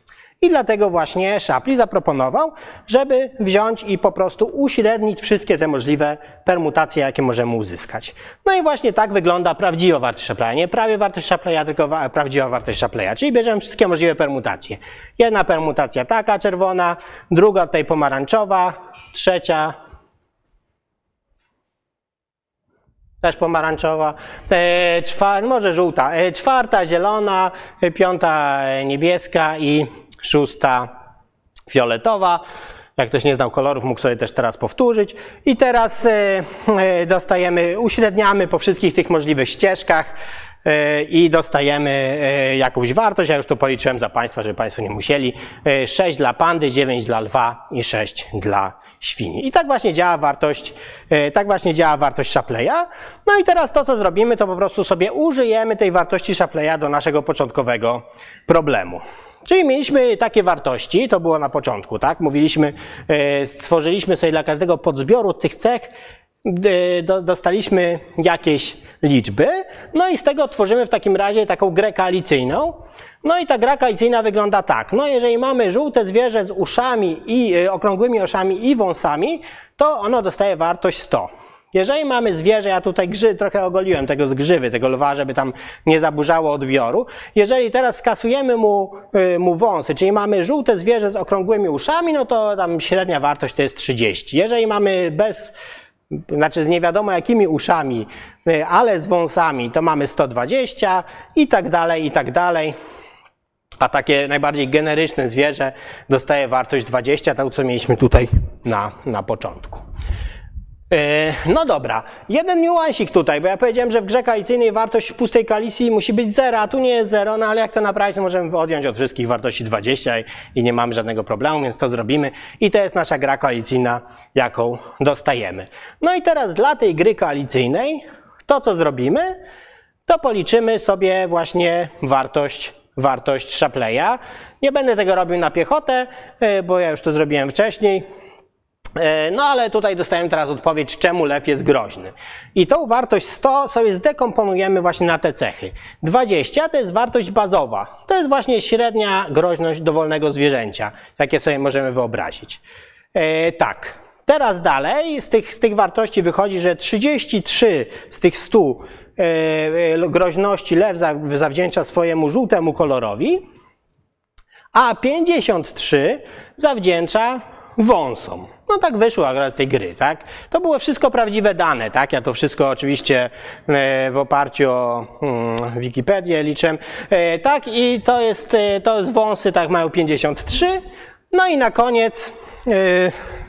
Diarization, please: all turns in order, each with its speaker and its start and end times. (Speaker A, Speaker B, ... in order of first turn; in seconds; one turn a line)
Speaker A: 0.4-19.8
Speaker A: 23.2-30.9
Speaker A: 31.7-32.4
Speaker A: 33.0-65.9
Speaker A: 66.4-95.5
Speaker A: 96.1-102.8
Speaker A: 103.8-109.8
Speaker A: 110.9-129.4
Speaker A: 130.1-138.0
Speaker A: 139.0-152.6
Speaker A: 153.1-163.4
Speaker A: 164.7-183.2